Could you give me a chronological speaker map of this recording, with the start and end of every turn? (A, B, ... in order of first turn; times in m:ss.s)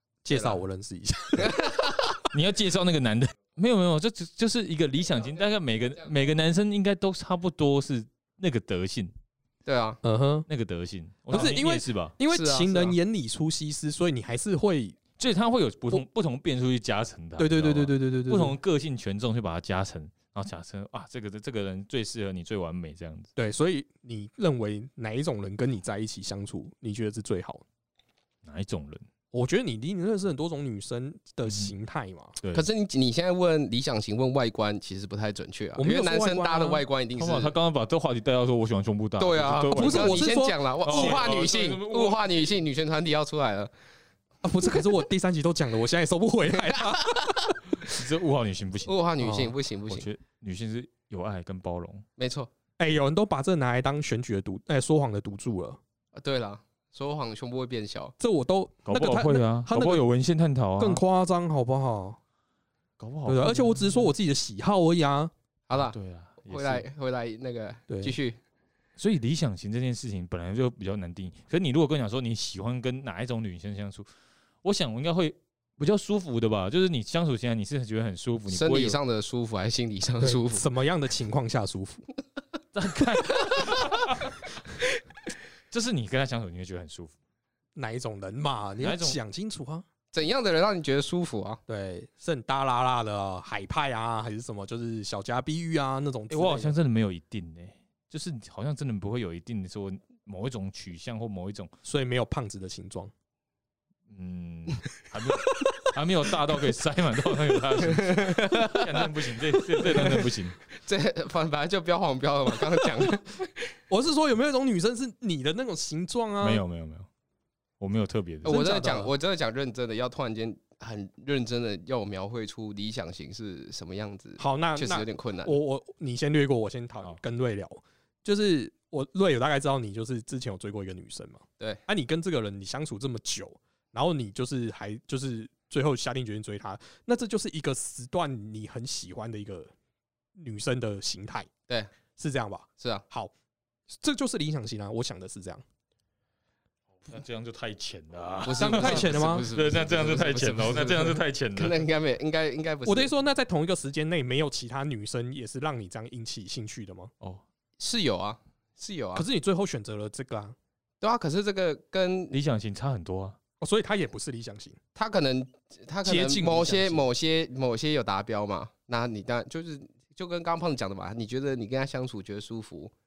0:00.2-0:01.6 A
0:00.3-0:00.6 B
0:01.4-0:02.2 B
0:02.3-0:09.1 C
0:09.6-0:10.0 B
0:10.0-0:10.5 A
0:10.5-0:12.1 C
0:11.3-0:15.0 A
0:12.3-0:13.0 B
0:15.2-0:23.3 C
0:17.4-0:18.6 A
0:23.4-0:27.6 A
0:28.4-0:29.0 C
0:29.3-0:32.4 A
0:32.5-0:37.5 B
0:35.8-0:36.8 A
0:37.2-0:40.3 C
0:39.2-0:43.7 B
0:39.7-0:41.3 A
0:40.8-0:42.5 C
0:44.4-0:47.5 A
0:46.6-0:47.5 B
0:47.8-0:48.9 C
0:48.8-0:50.0 B
0:49.2-0:49.5 A
0:49.9-0:52.0 C
0:52.2-0:52.5 B
0:52.8-0:55.8 A
0:56.1-0:58.1 B
0:58.2-1:00.0 A
0:58.8-1:01.0 C
1:00.8-1:02.2 A
1:03.0-1:03.8 C
1:03.2-1:05.3 A
1:05.7-1:08.4 B
1:05.7-1:06.8 C
1:07.9-1:08.2 A
1:09.0-1:14.0 C
1:14.6-1:19.0 C
1:18.5-1:20.6 B
1:20.2-1:22.0 A
1:22.7-1:24.4 C
1:25.7-1:27.1 C
1:27.8-1:29.8 A
1:28.8-1:29.2 C
1:30.1-1:31.6 B
1:31.7-1:36.7 A
1:36.3-1:41.7 C
1:41.8-1:43.1 A
1:44.1-1:50.6 C
1:47.8-1:49.1 B
1:49.7-1:53.5 B
1:53.9-1:56.6 A
1:56.4-1:57.1 C
1:57.8-1:58.6 C
1:58.4-1:59.1 A
1:58.4-2:05.6 B
2:04.4-2:19.7 A
2:20.4-2:21.5 A
2:22.2-2:23.3 A
2:23.9-2:25.6 A
2:27.0-2:31.8 C
2:28.4-2:33.1 B
2:28.6-2:29.4 A
2:32.8-2:37.1 A
2:37.8-2:39.2 B
2:39.1-2:40.6 A
2:41.0-2:42.3 B
2:42.3-2:43.4 C
2:43.6-2:44.8 A
2:45.0-2:52.9 B
2:46.0-2:47.0 A